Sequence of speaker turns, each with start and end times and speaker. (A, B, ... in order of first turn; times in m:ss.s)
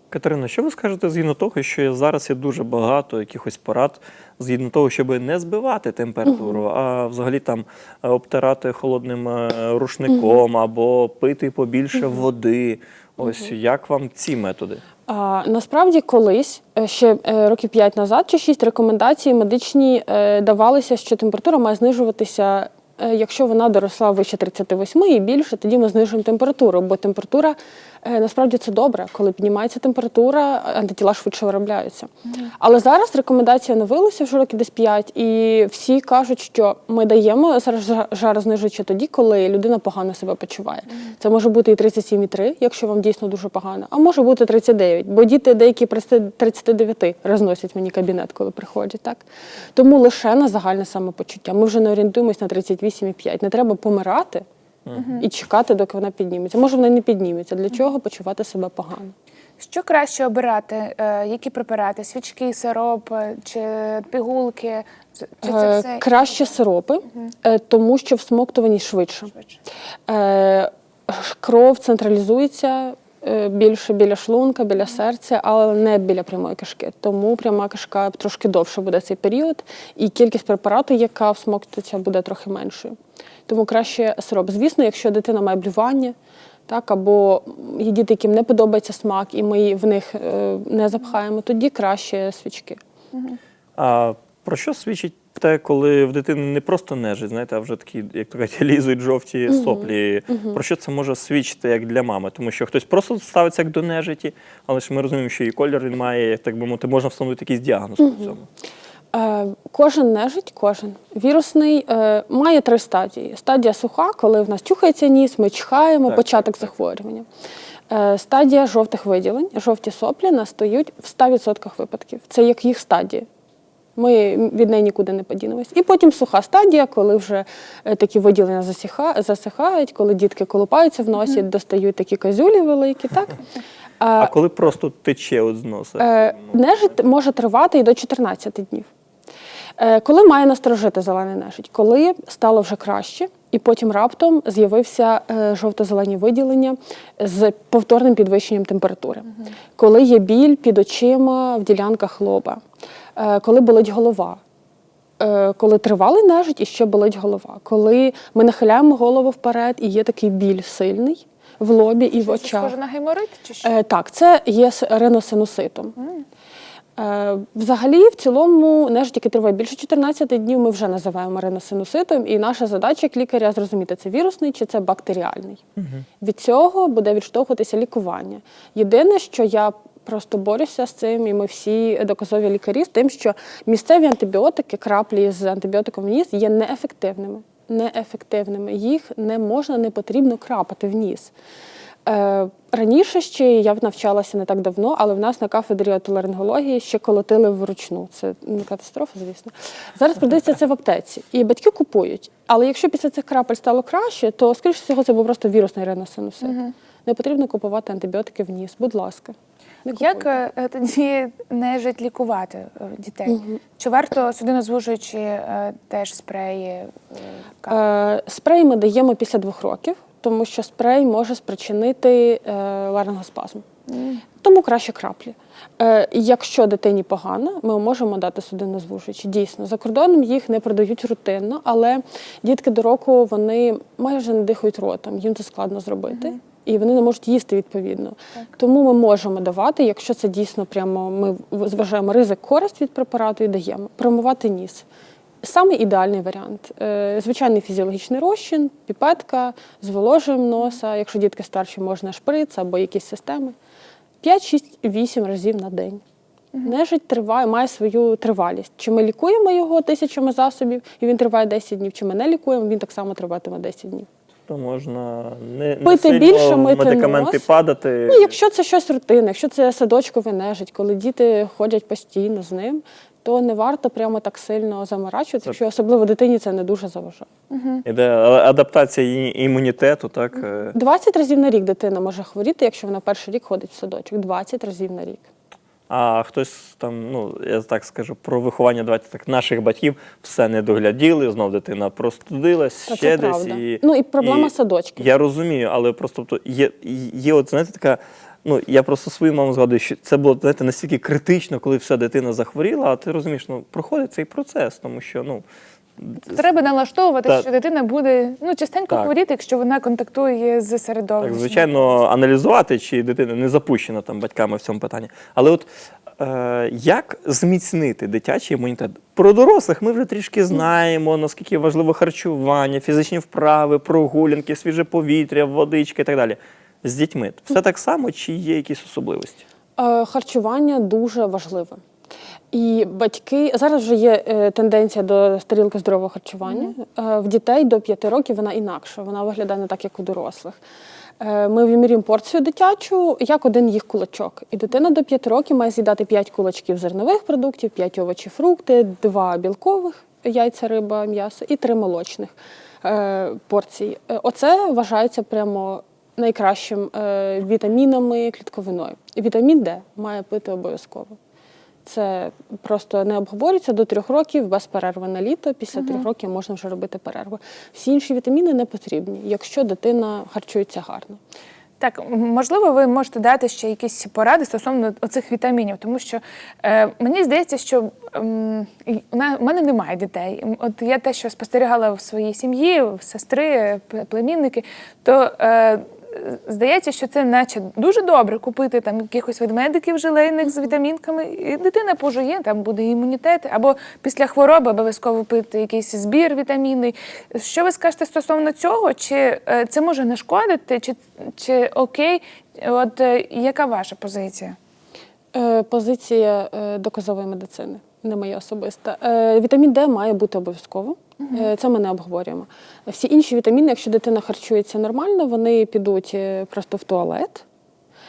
0:00.1-0:14.8 A
0:06.3-0:06.6 B
0:15.1-0:54.4 B
0:55.0-0:55.2 C
0:55.0-0:59.1 B
0:59.6-1:06.3 C
1:05.4-1:09.3 B
1:10.1-1:23.0 B
1:23.5-1:26.1 B
1:26.7-1:32.8 B
1:33.8-1:48.4 A
1:39.5-1:40.6 B
1:48.0-1:48.3 B
1:49.1-1:57.2 B
1:56.1-1:56.6 A
1:57.9-2:03.3 B
2:04.0-2:13.4 B
2:14.0-2:14.3 B
2:14.2-2:16.6 A
2:16.0-2:18.9 B
2:19.8-2:32.6 B
2:33.2-2:34.4 B
2:35.2-2:42.7 B
2:42.1-2:43.7 C
2:43.6-2:45.9 B
2:46.0-2:46.2 C
2:47.0-2:55.6 B
2:56.2-3:11.3 B
3:12.0-3:30.4 B
3:26.4-3:26.7 C
3:29.9-3:37.8 C
3:33.3-3:33.6 B
3:37.7-3:43.6 B
3:43.9-3:44.2 C
3:44.4-4:04.8 B
4:05.4-4:13.5 B
4:14.2-4:16.0 B
4:16.6-4:24.1 B
4:24.5-4:28.3 A
4:25.8-4:27.5 B
4:28.1-4:37.3 B
4:37.5-4:37.8 C
4:37.8-4:40.8 A
4:40.7-4:45.3 B
4:45.9-5:05.4 A
4:52.9-4:55.1 B
5:06.0-5:06.4 A
5:06.3-5:11.9 C
5:11.2-5:15.7 A
5:16.2-5:29.4 A
5:29.8-5:31.8 B
5:32.5-5:40.6 B
5:36.4-5:36.7 C
5:41.2-6:01.2 B
6:01.8-6:11.2 B
6:05.7-6:06.1 C
6:11.8-6:44.6 C
6:45.3-6:57.4 B
6:51.2-6:51.5 C